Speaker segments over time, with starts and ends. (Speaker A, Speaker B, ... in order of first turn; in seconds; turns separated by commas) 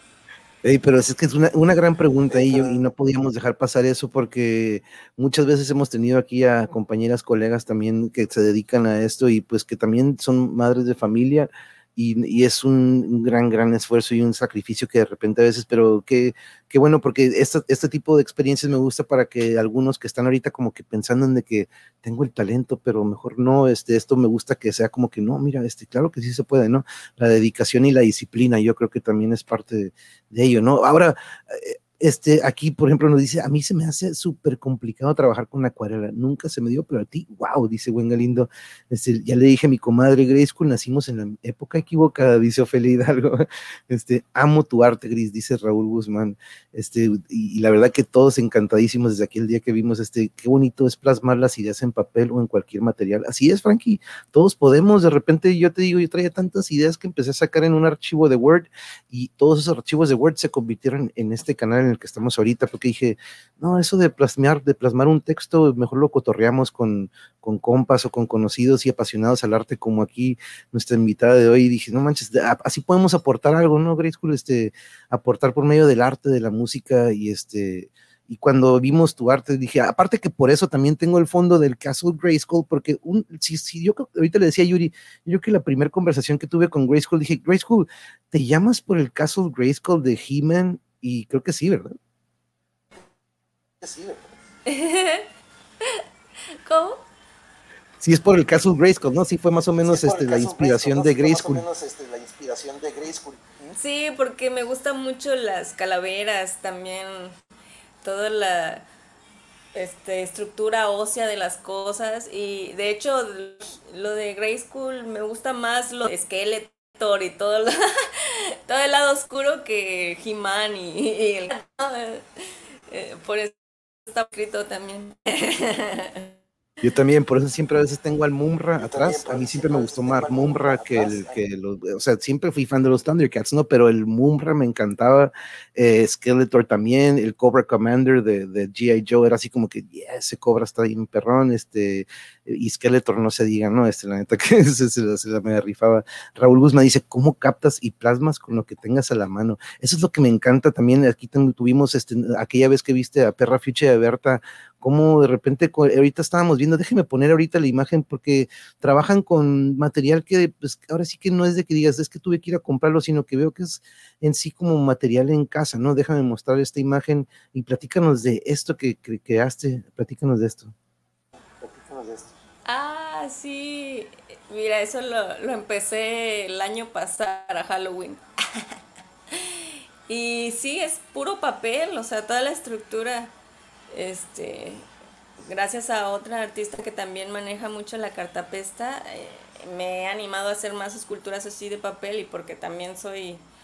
Speaker A: 0.6-92.0, Speaker B: 2.3-2.8, Speaker B: 93.8-94.3, Speaker C: 94.7-95.3, Speaker C: 96.6-97.0, Speaker A: 98.0-101.6, Speaker B: 99.8-103.7, Speaker C: 103.7-107.4, Speaker C: 108.0-108.9, Speaker C: 109.7-122.3, Speaker C: 122.9-126.3, Speaker A: 126.8-170.7, Speaker B: 128.8-131.4, Speaker B: 171.6-172.3, Speaker C: 172.7-178.7, Speaker C: 179.3-183.3, Speaker C: 183.9-184.9, Speaker C: 185.4-193.4